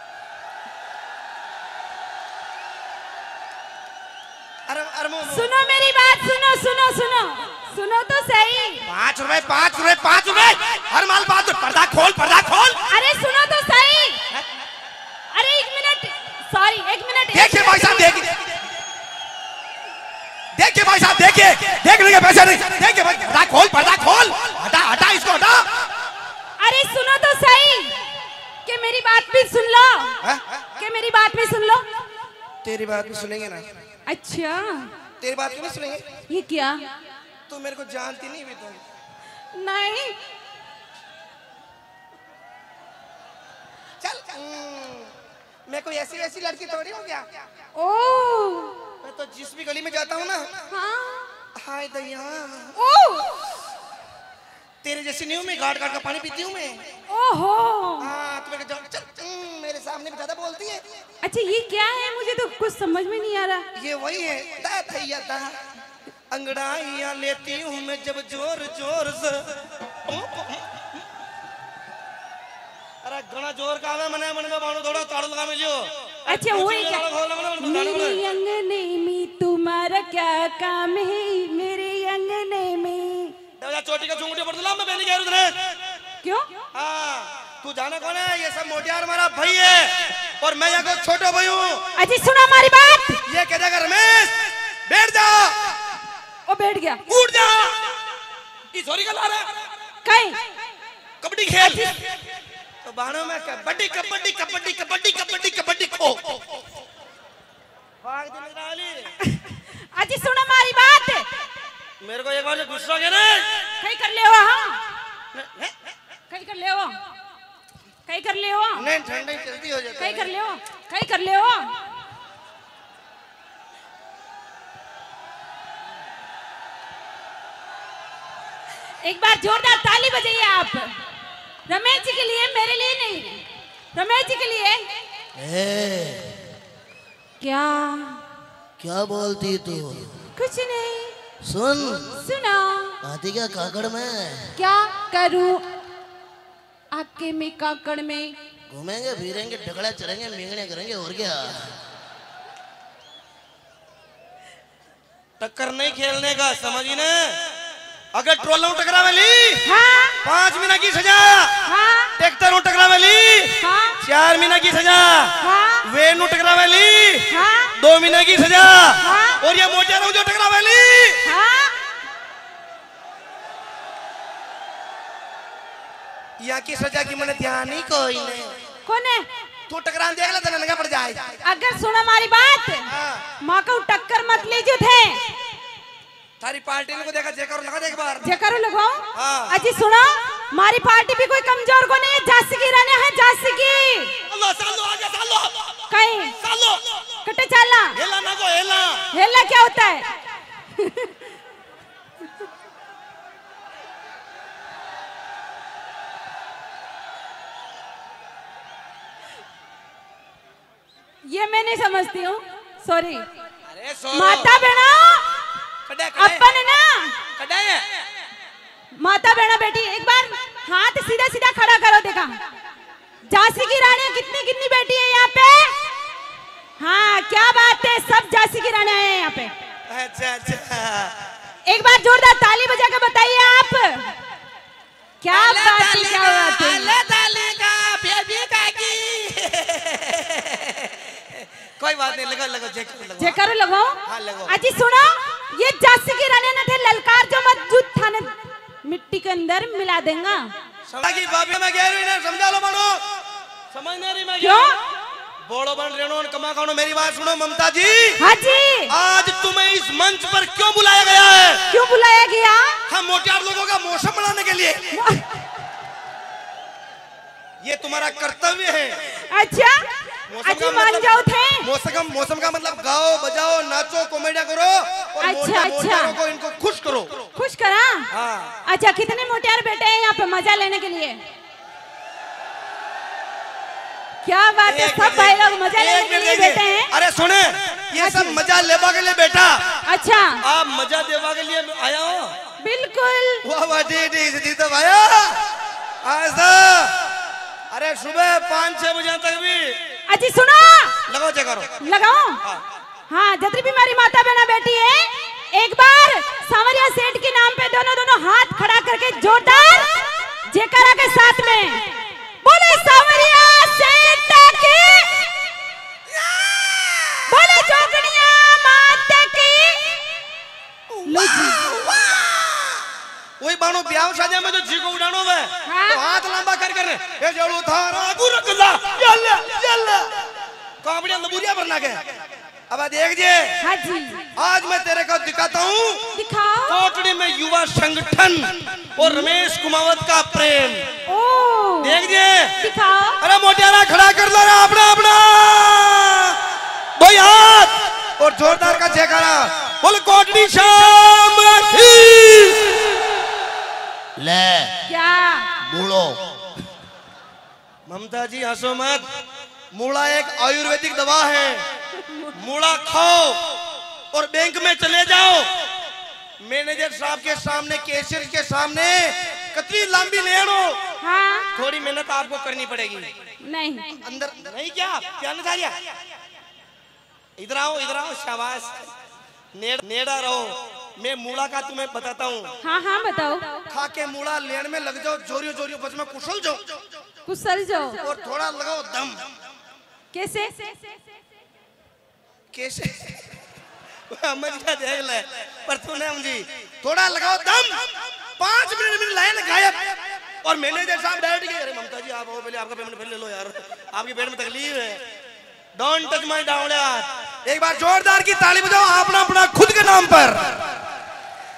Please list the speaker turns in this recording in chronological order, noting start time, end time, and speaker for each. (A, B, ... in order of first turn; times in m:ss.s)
0:04.7-0:05.5 A
0:05.2-0:08.8 B
0:08.8-0:12.8 A
0:12.9-0:14.2 B
0:15.3-0:18.2 B
0:17.3-0:18.5 A
0:20.5-0:25.7 A
0:26.6-0:28.0 B
0:28.6-0:30.2 B
0:30.2-0:30.6 A
0:30.8-0:31.8 B
0:32.6-0:33.6 A
0:34.0-0:34.9 B
0:35.2-0:36.0 A
0:36.3-0:36.9 B
0:37.5-0:38.8 A
0:39.5-0:40.2 B
0:44.0-0:45.1 A
0:45.7-0:47.2 A
0:47.7-0:48.8 B
0:49.0-0:50.5 A
0:50.7-0:51.3 B
0:51.6-0:52.8 A
0:52.8-0:53.4 B
0:54.8-0:56.8 A
0:57.1-0:58.1 B
0:58.0-1:00.8 A
1:01.2-1:03.6 B
1:03.8-1:05.5 A
1:06.3-1:09.6 A
1:10.1-1:10.7 A
1:13.0-1:18.2 A
1:16.3-1:17.0 B
1:17.6-1:23.3 B
1:23.6-1:25.6 A
1:26.2-1:26.5 B
1:26.7-1:31.8 A
1:32.0-1:33.2 B
1:33.3-1:34.3 A
1:34.9-1:35.6 A
1:36.5-1:37.0 B
1:37.1-1:37.9 A
1:38.7-1:39.5 A
1:40.0-1:40.4 B
1:41.2-1:41.9 A
1:41.6-1:41.9 B
1:42.8-1:46.4 A
1:48.0-1:49.1 A
1:49.2-1:51.3 B
1:52.0-1:53.7 A
1:53.8-1:54.8 B
1:55.3-1:55.7 A
1:56.3-1:56.9 B
1:58.1-1:58.9 B
1:58.8-2:00.3 A
2:00.0-2:01.7 B
2:09.0-2:10.9 B
2:11.6-2:14.8 B
2:15.4-2:16.4 C
2:17.4-2:18.2 B
2:18.8-2:20.1 C
2:20.4-2:21.1 B
2:21.4-2:22.1 C
2:22.0-2:23.0 B
2:23.0-2:24.5 C
2:24.5-2:25.7 B
2:26.9-2:28.3 B
2:28.7-2:31.7 C
2:35.4-2:37.4 A
2:38.1-2:39.6 A
2:39.6-2:40.2 B
2:40.2-2:41.6 A
2:41.6-2:42.1 B
2:42.2-2:51.2 A
2:43.6-2:44.0 B
2:45.4-2:45.8 B
2:47.3-2:47.7 B
2:49.0-2:49.4 B
2:51.2-2:51.8 B
2:56.4-2:58.5 A
2:58.8-2:59.2 B
2:59.7-3:01.3 A
3:01.4-3:02.9 B
3:02.9-3:03.2 A
3:03.4-3:05.2 B
3:06.4-3:08.3 A
3:08.2-3:14.1 B
3:09.1-3:09.6 A
3:14.3-3:15.8 A
3:15.9-3:16.3 B
3:16.4-3:17.0 A
3:17.2-3:18.0 B
3:17.9-3:19.0 A
3:19.1-3:20.1 B
3:20.7-3:21.3 B
3:31.2-3:33.2 B
3:33.6-3:34.6 A
3:34.1-3:35.3 B
3:35.9-3:36.4 A
3:36.1-3:37.2 B
3:37.4-3:37.9 A
3:38.9-3:42.3 B
3:43.3-3:45.8 B
3:46.8-3:49.5 B
3:49.9-3:51.2 A
3:51.6-3:54.1 B
3:55.2-3:57.0 B
3:55.3-4:03.4 A
4:03.2-4:10.5 B
4:04.0-4:04.6 A
4:10.8-4:13.0 A
4:13.7-4:14.7 A
4:14.4-4:14.8 B
4:15.4-4:18.2 A
4:18.2-4:18.9 B
4:18.9-4:21.7 A
4:21.7-4:22.8 B
4:22.9-4:25.0 A
4:24.9-4:25.3 B
4:27.6-4:29.0 A
4:29.1-4:29.8 B
4:30.3-4:31.1 A
4:30.4-4:31.6 B
4:31.6-4:37.2 A
4:35.2-4:36.1 B
4:37.4-4:38.1 B
4:38.1-4:38.5 A
4:38.6-4:41.2 B
4:44.2-4:46.9 B
4:44.6-4:49.6 A
4:48.0-4:48.4 B
4:49.8-4:50.4 B
4:50.4-4:52.3 A
4:52.6-4:53.4 B
4:53.4-4:55.4 A
4:56.0-4:57.0 A
4:57.7-4:59.8 A
5:00.1-5:01.0 B
5:01.1-5:01.8 A
5:01.8-5:02.4 B
5:03.1-5:09.9 B
5:10.5-5:11.8 B
5:12.4-5:15.2 B
5:16.2-5:17.6 A
5:17.3-5:19.9 B
5:20.9-5:22.8 A
5:21.0-5:21.7 B
5:23.4-5:30.1 A
5:25.6-5:26.0 B
5:30.8-5:32.0 A
5:32.7-5:33.6 A
5:33.6-5:34.2 B
5:34.4-5:36.0 A
5:36.1-5:36.8 B
5:36.7-5:40.8 A
5:39.0-5:39.3 B
5:41.1-5:43.2 B
5:41.8-5:42.5 A
5:43.2-5:46.4 A
5:47.0-5:52.8 A
5:54.2-5:54.8 C
5:54.8-5:55.5 B
5:55.6-5:56.3 C
5:57.8-5:59.0 A
5:59.7-6:01.6 A
6:02.3-6:03.4 A
6:04.1-6:05.5 A
6:06.4-6:10.8 A
6:11.0-6:11.5 B
6:11.5-6:13.1 A
6:13.4-6:14.0 B
6:14.0-6:15.8 A
6:17.4-6:18.9 A
6:19.5-6:22.5 A
6:22.6-6:23.6 B
6:23.7-6:26.6 A
6:27.2-6:28.0 B
6:28.0-6:29.2 A
6:30.1-6:31.0 B
6:32.5-6:33.2 A
6:34.1-6:37.8 A
6:38.4-6:39.8 A
6:40.4-6:45.0 A
6:45.8-6:50.4 A